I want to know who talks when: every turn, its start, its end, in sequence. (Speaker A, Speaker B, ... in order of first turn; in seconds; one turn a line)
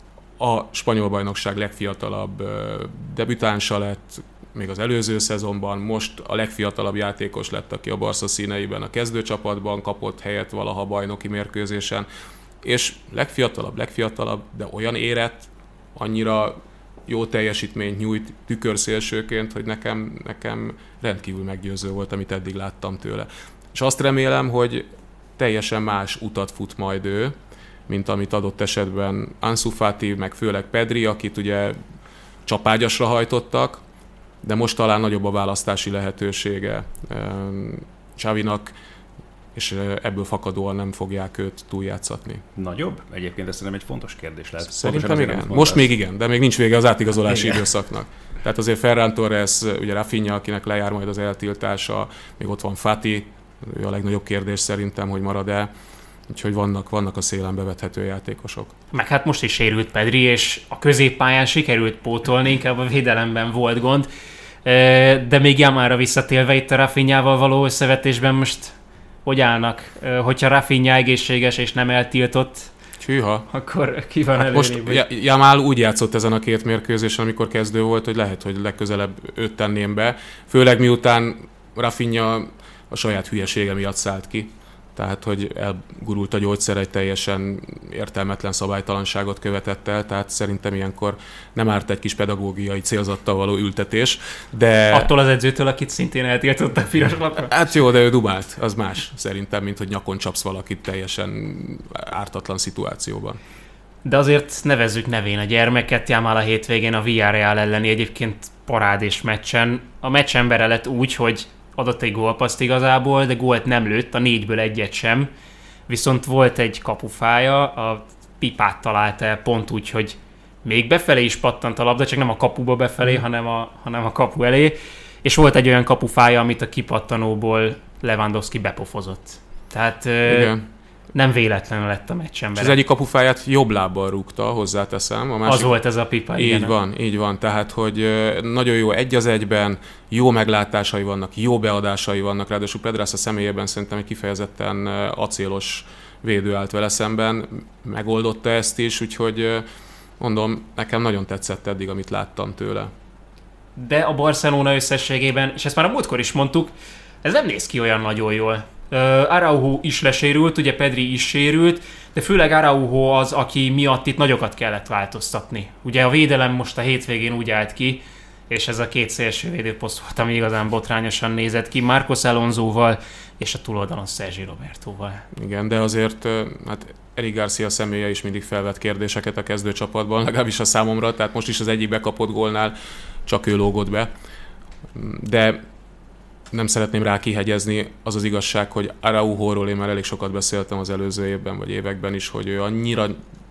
Speaker A: 0.4-12.1
Speaker A: 12.6-24.9
Speaker A: 25.4-27.3
Speaker A: 27.9-31.8
Speaker A: 32.4-33.8
Speaker A: 34.4-38.7
Speaker A: 39.5-42.4
Speaker B: 42.5-45.9
Speaker A: 44.7-55.7
Speaker B: 47.2-47.6
Speaker A: 56.3-58.7
Speaker C: 58.9-64.1
Speaker C: 64.6-72.7
Speaker A: 73.0-73.5
Speaker C: 73.5-75.0
Speaker A: 74.4-95.1
Speaker C: 94.9-97.5
Speaker A: 97.5-103.4
Speaker C: 104.0-115.3
Speaker C: 115.9-130.6
Speaker A: 130.3-130.6
Speaker C: 131.1-132.8
Speaker A: 132.6-135.8
Speaker C: 135.4-136.7
Speaker A: 136.3-149.7
Speaker A: 150.2-152.9
Speaker C: 153.8-156.7
Speaker C: 157.2-175.2
Speaker A: 175.3-182.7
Speaker A: 183.2-184.1
Speaker A: 184.9-185.6
Speaker A: 186.5-193.2